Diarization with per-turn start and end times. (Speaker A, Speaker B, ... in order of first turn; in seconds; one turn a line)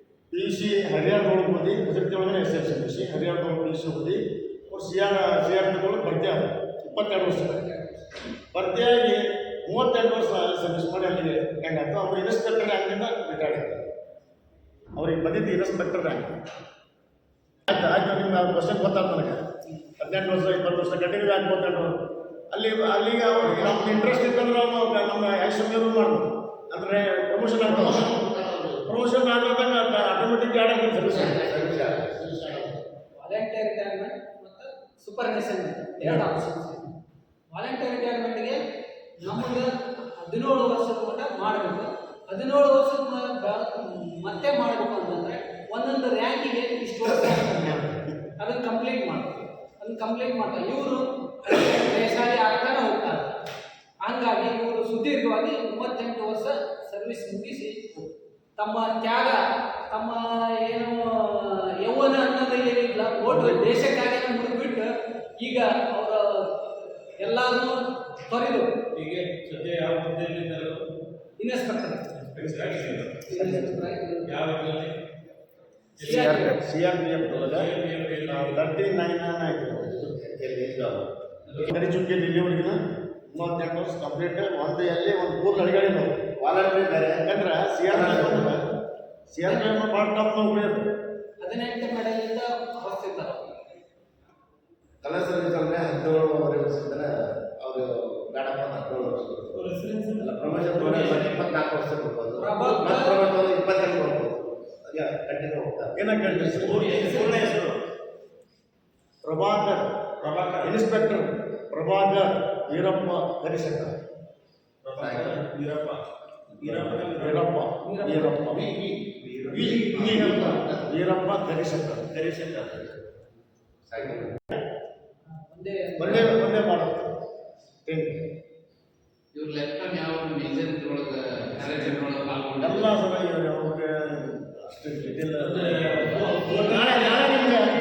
Speaker A: 0.3-7.7
Speaker B: 7.6-8.0
Speaker A: 8.5-13.8
Speaker A: 15.0-16.3
Speaker A: 17.7-19.4
Speaker A: 20.0-21.9
Speaker A: 22.5-28.2
Speaker C: 27.6-28.8
Speaker A: 28.8-31.7
Speaker C: 31.1-32.8
Speaker B: 33.2-37.0
Speaker B: 37.5-38.6
Speaker B: 39.2-53.4
Speaker B: 54.0-58.0
Speaker B: 58.6-68.8
Speaker A: 63.3-63.7
Speaker D: 68.9-70.9
Speaker B: 71.4-72.1
Speaker D: 72.1-73.3
Speaker B: 73.2-74.3
Speaker A: 73.3-74.0
Speaker D: 74.2-75.0
Speaker D: 76.0-76.4
Speaker A: 76.0-77.7
Speaker B: 76.1-76.6
Speaker D: 77.3-78.7
Speaker A: 78.3-80.0
Speaker C: 79.8-81.1
Speaker A: 81.6-86.3
Speaker C: 86.4-87.2
Speaker A: 87.2-88.6
Speaker C: 87.9-88.5
Speaker A: 89.3-90.8
Speaker B: 89.5-89.8
Speaker B: 91.4-93.5
Speaker C: 95.0-106.8
Speaker D: 99.8-101.5
Speaker B: 102.4-103.2
Speaker A: 106.0-107.5
Speaker D: 106.5-107.8
Speaker B: 107.0-107.5
Speaker A: 109.2-109.8
Speaker D: 110.2-110.8
Speaker A: 110.6-113.9
Speaker D: 114.8-117.4
Speaker C: 115.0-115.4
Speaker A: 117.1-118.7
Speaker B: 117.8-118.3
Speaker C: 118.5-120.9
Speaker A: 119.5-122.1
Speaker D: 122.1-122.9
Speaker C: 123.8-124.4
Speaker B: 125.3-126.4
Speaker A: 126.0-127.1
Speaker A: 127.8-128.2
Speaker E: 129.3-132.9
Speaker A: 132.6-137.7
Speaker D: 135.4-137.3